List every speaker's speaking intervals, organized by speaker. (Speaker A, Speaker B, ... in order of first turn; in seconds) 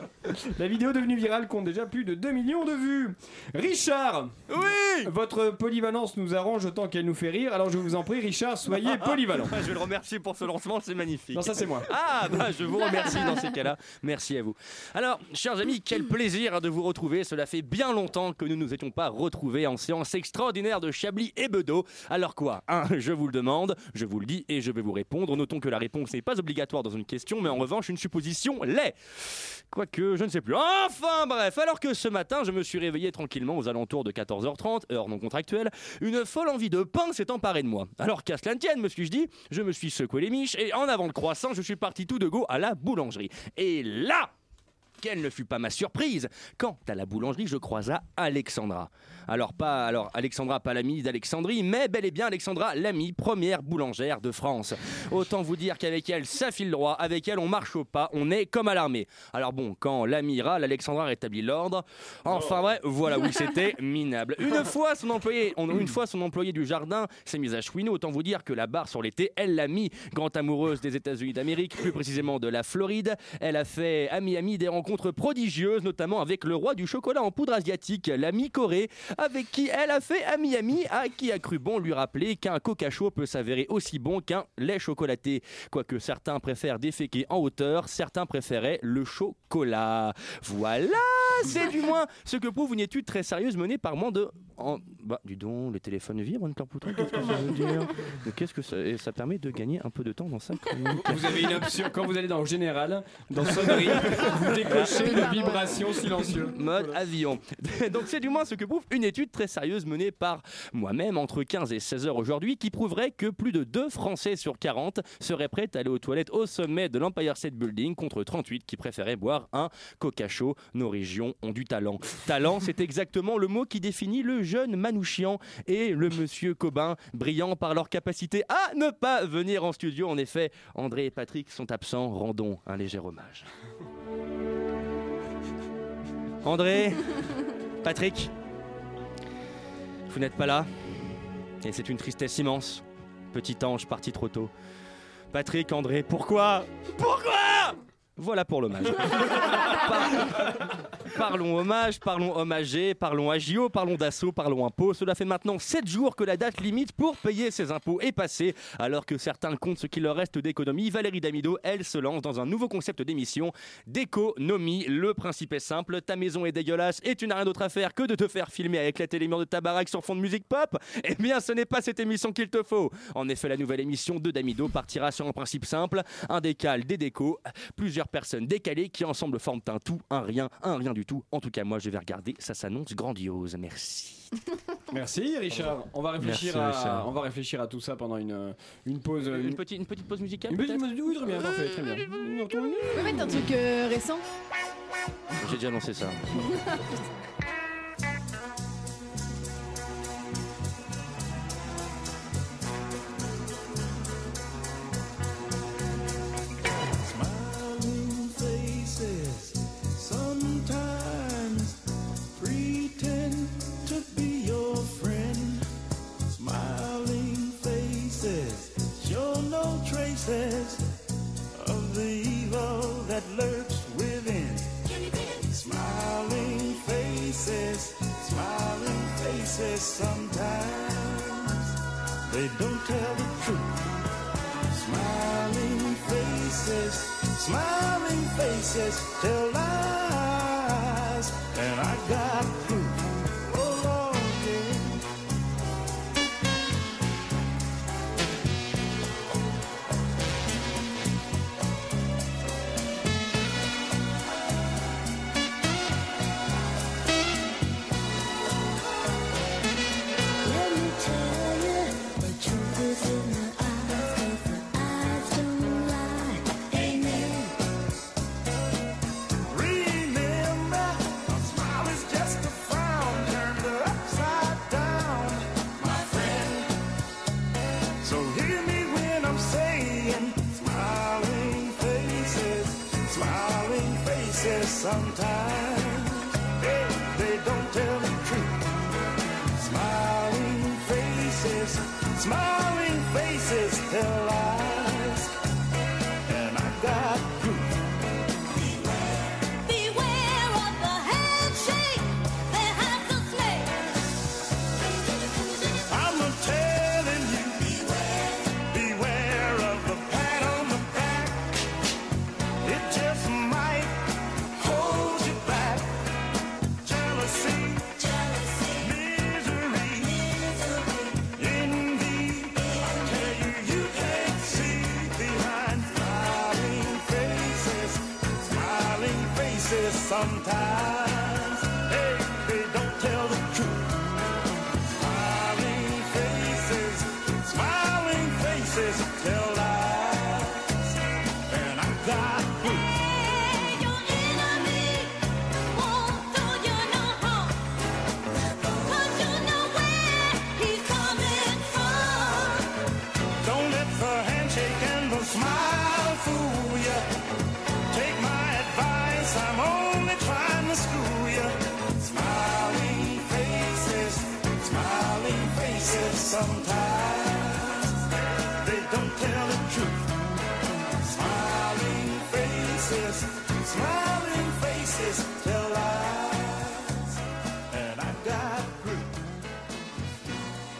Speaker A: 0.3-4.4, 5.0-9.6, 11.3-11.9, 100.9-106.9, 184.9-189.6, 190.5-193.4
Speaker B: 4.5-5.1, 8.8-44.3, 45.0-101.6, 104.7-105.5, 106.5-133.5, 136.4-138.3, 140.1-140.7, 141.6-144.5, 145.3-184.3, 186.2-187.0, 189.2-190.9, 195.4-196.2
Speaker C: 104.3-106.5, 192.9-194.2
Speaker D: 207.0-211.8, 212.3-215.6, 216.3-220.9, 221.6-231.6, 232.2-233.8, 234.7-245.0, 266.8-267.5, 269.5-276.8, 278.0-288.6, 289.6-295.3, 296.2-297.8, 298.6-299.2, 305.9-311.6, 312.6-315.9, 316.8-318.0, 318.8-320.2, 321.2-334.0, 334.9-340.9, 341.5-343.0, 353.4-357.1, 357.9-368.0, 368.6-370.1, 371.0-377.0, 377.7-379.1
Speaker E: 260.4-267.4, 299.6-303.8, 318.0-318.8, 320.3-321.2, 343.0-345.2, 345.7-347.6, 348.6-352.7